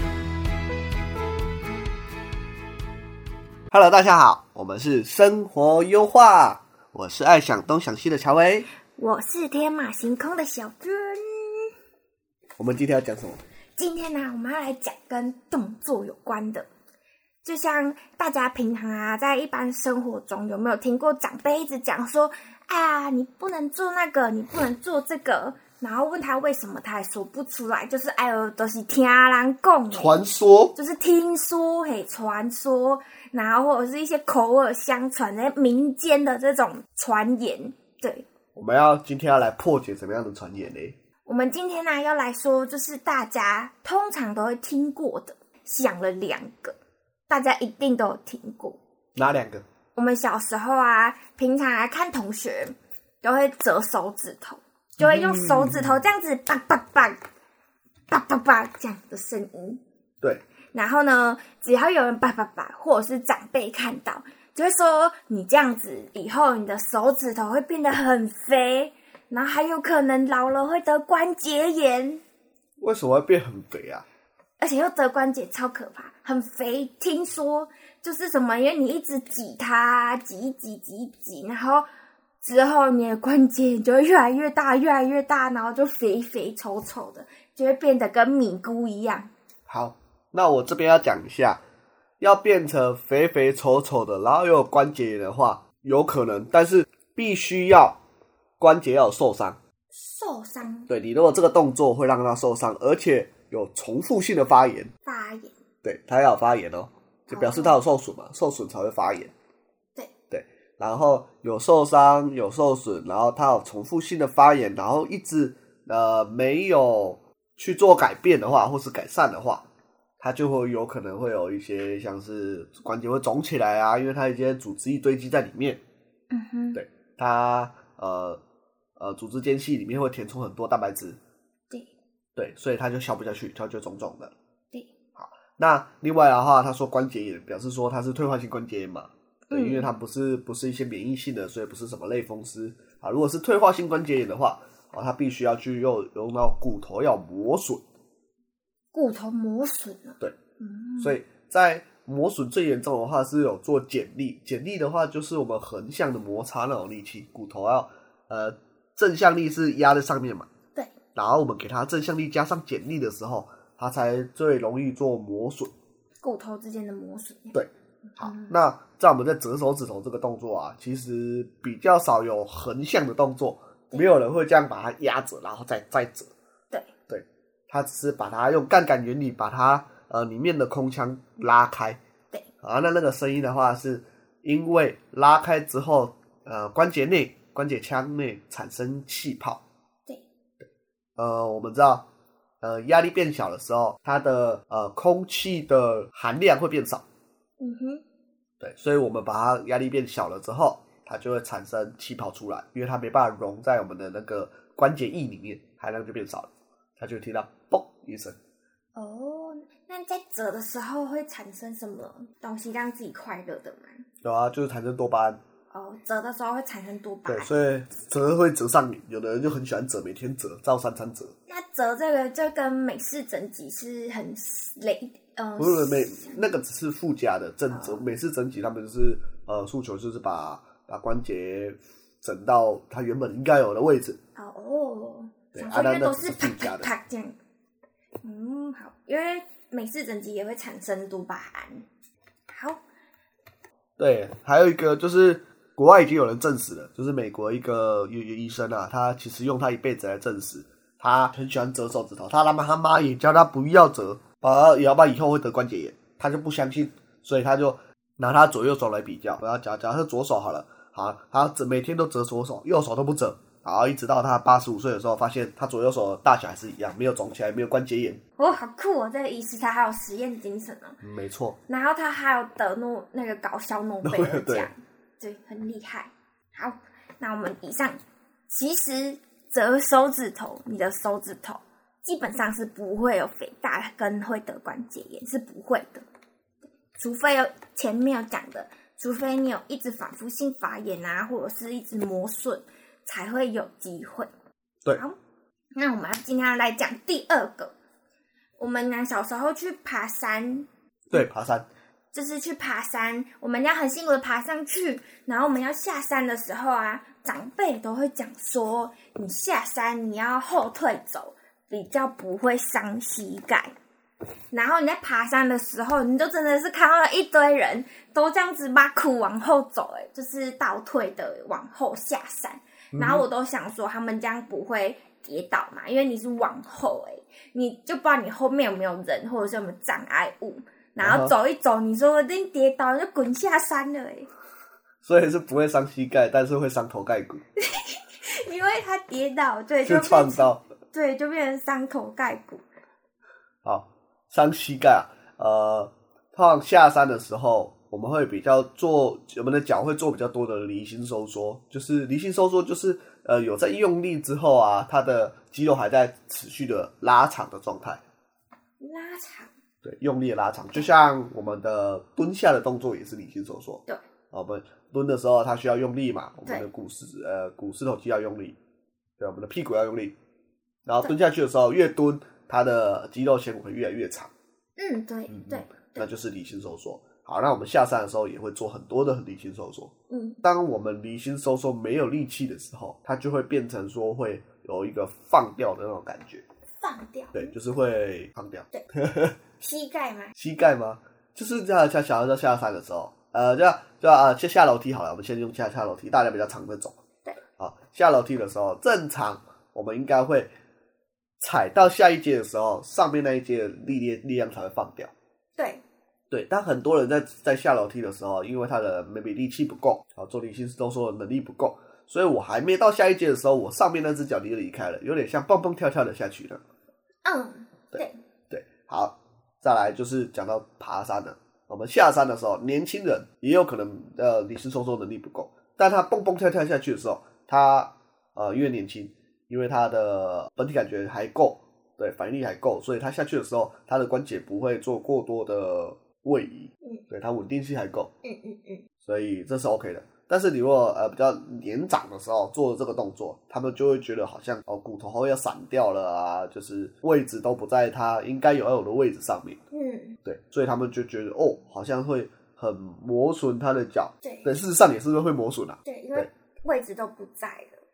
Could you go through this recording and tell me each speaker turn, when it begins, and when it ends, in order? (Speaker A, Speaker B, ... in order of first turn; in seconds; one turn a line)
Speaker A: 3.7-8.7
Speaker B: 8.9-11.7
Speaker A: 12.6-13.4
Speaker B: 13.8-16.7
Speaker B: 17.4-30.2
Speaker A: 29.9-30.8
Speaker B: 30.7-38.3
Speaker A: 38.5-41.0
Speaker B: 41.2-46.8
Speaker B: 47.3-48.8
Speaker A: 49.1-49.6
Speaker B: 49.9-57.2
Speaker A: 55.0-55.9
Speaker B: 58.1-59.8
Speaker B: 60.7-72.2
Speaker A: 72.8-74.0
Speaker B: 74.6-81.9
Speaker B: 82.4-89.3
Speaker A: 89.7-91.6
Speaker A: 92.2-98.0
Speaker A: 98.6-99.6
Speaker B: 99.9-100.9
Speaker A: 100.9-104.9
Speaker B: 105.0-105.6
Speaker A: 105.8-109.3
Speaker B: 107.3-107.8
Speaker A: 110.3-119.6
Speaker A: 120.2-125.8
Speaker B: 126.3-126.8
Speaker A: 126.7-128.4
Speaker A: 129.0-131.2
Speaker A: 132.3-134.3
Speaker A: 135.2-147.8
Speaker B: 139.5-139.9
Speaker B: 148.9-151.2
Speaker A: 151.0-160.5
Speaker A: 161.1-165.7
Speaker B: 166.2-168.5
Speaker A: 167.5-176.3
Speaker A: 177.1-182.0
Speaker A: 182.6-189.6
Speaker A: 191.2-192.0
Speaker A: 192.6-197.0
Speaker B: 197.6-198.0
Speaker A: 198.6-208.3
Speaker B: 208.9-214.0
Speaker A: 214.2-215.4
Speaker B: 215.7-217.5
Speaker A: 217.2-221.3
Speaker B: 221.5-226.4
Speaker A: 225.6-234.2
Speaker B: 227.7-228.1
Speaker B: 234.3-237.4
Speaker A: 235.5-236.9
Speaker B: 238.2-241.8
Speaker B: 242.5-242.8
Speaker A: 244.0-268.2
Speaker B: 268.4-271.0
Speaker A: 271.0-271.6
Speaker B: 271.7-286.1
Speaker A: 274.0-274.7
Speaker B: 287.0-294.3
Speaker B: 294.9-295.2
Speaker B: 295.8-297.7
Speaker B: 298.6-301.2
Speaker A: 301.1-301.7
Speaker B: 302.1-313.7
Speaker B: 314.5-334.3
Speaker A: 322.9-323.3
Speaker A: 331.0-331.3
Speaker A: 335.0-337.4
Speaker B: 337.6-342.6
Speaker A: 339.8-340.6
Speaker A: 343.6-358.0
Speaker B: 358.8-359.5
Speaker A: 359.8-368.6
Speaker A: 369.2-370.1
Speaker A: 370.9-374.3
Speaker B: 374.8-376.1
Speaker A: 375.3-386.4
Speaker B: 380.1-380.4
Speaker B: 386.8-387.5
Speaker A: 387.3-389.4
Speaker B: 389.6-390.3
Speaker A: 390.4-396.9
Speaker A: 397.6-400.5
Speaker A: 401.4-405.1
Speaker B: 405.6-405.8
Speaker A: 406.3-416.6
Speaker B: 417.2-418.2
Speaker A: 417.9-438.1
Speaker B: 438.2-438.8
Speaker A: 439.0-449.6
Speaker B: 449.7-450.2
Speaker A: 450.2-456.3
Speaker B: 454.2-454.5
Speaker B: 455.8-457.8